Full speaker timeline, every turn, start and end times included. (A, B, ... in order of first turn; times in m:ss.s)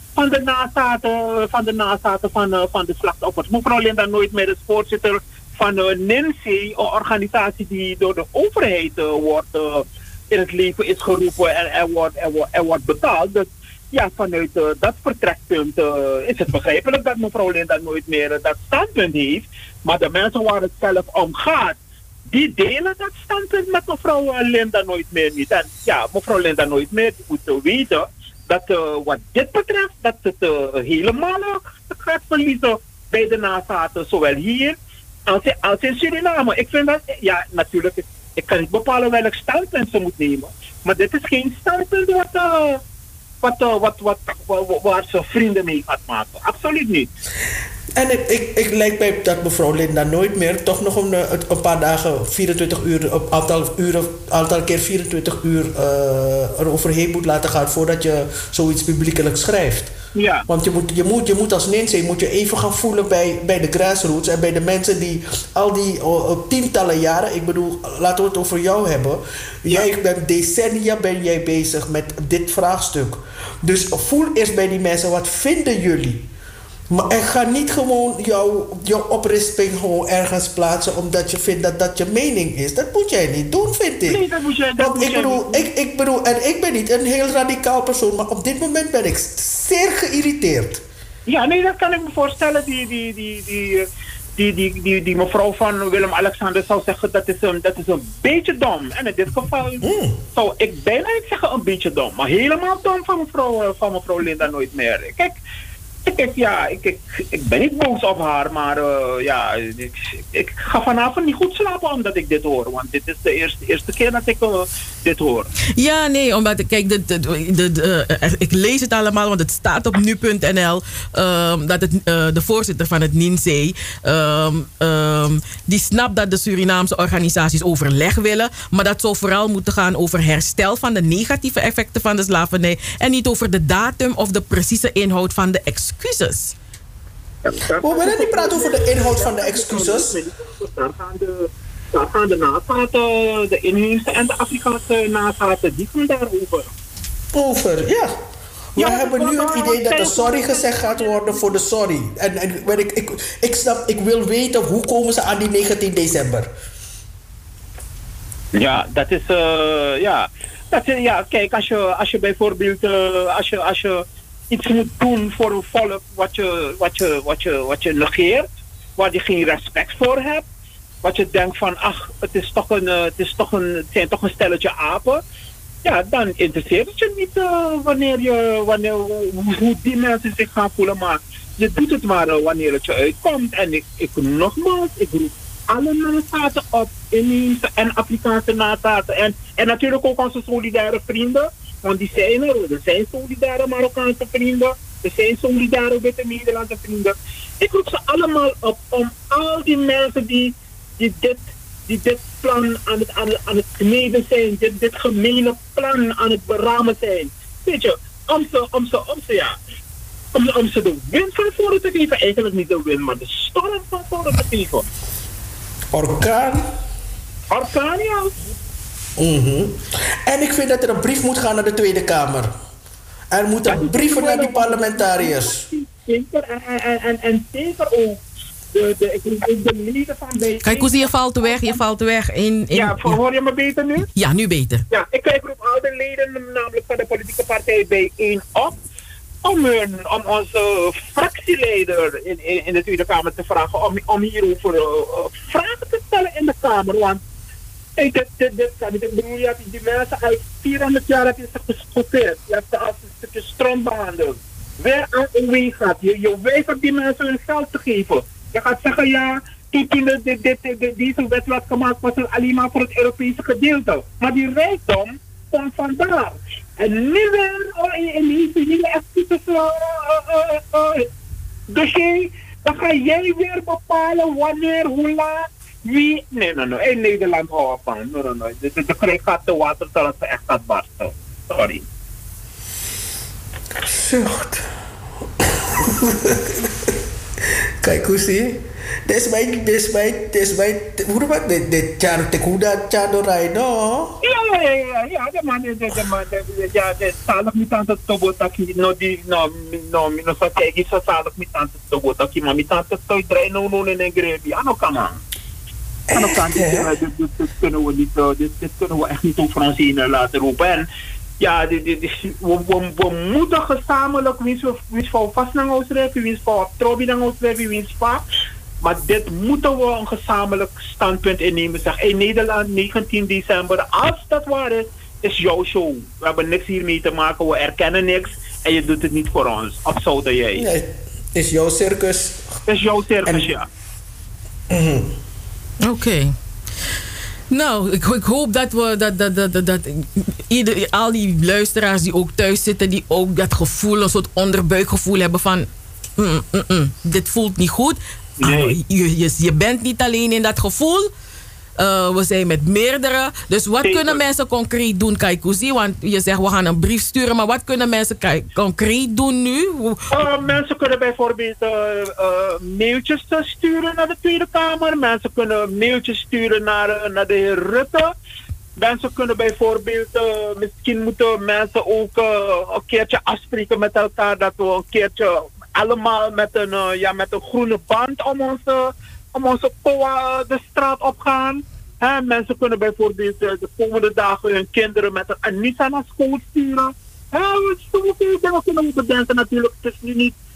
0:00.2-0:21.8 A
0:22.3-0:34.8 A
0:35.3-0:42.8 A
0:43.4-0:47.1 A
0:48.0-0:59.9 B
1:00.2-1:00.5 A
1:00.5-1:16.3 B
1:16.9-1:24.2 B
1:24.1-1:25.6 A
1:24.8-1:30.8 B
1:31.3-1:33.9 A
1:34.4-1:45.4 A
1:39.8-1:40.2 B
1:46.1-1:55.5 A
1:55.8-2:16.6 C
2:17.4-2:26.7 A
2:17.8-2:20.2 B
2:27.3-2:28.1 B
2:28.8-2:36.5 B
2:28.8-2:31.5 A
2:38.5-2:50.4 A
2:51.0-2:55.2 A
2:55.8-3:29.6 A
3:30.3-3:34.9 A
3:35.9-3:36.6 B
3:37.5-3:38.5 A
3:39.2-3:42.5 B
3:43.3-3:45.6 B
3:43.7-3:48.2 A
3:48.7-3:51.8 A
3:50.6-3:53.2 C
3:52.7-3:54.1 A
3:54.2-3:54.8 C
3:54.9-3:58.8 A
3:59.4-4:07.2 A
4:08.0-4:31.1 A
4:31.7-4:41.8 A
4:43.8-4:44.7 B
4:45.4-4:46.9 B
4:47.8-4:54.2 B
4:54.2-5:05.2 A
5:06.1-5:06.9 B
5:06.1-5:10.9 A
5:11.4-5:18.2 A
5:18.8-5:30.7 A
5:30.6-5:32.5 B
5:32.7-5:33.7 A
5:34.7-5:35.1 B
5:35.8-5:36.4 C
5:37.5-5:51.1 C
5:48.4-5:48.8 A
5:51.8-6:00.3 C
5:53.8-5:54.2 A
6:00.1-6:08.1 A
6:08.8-6:30.4 A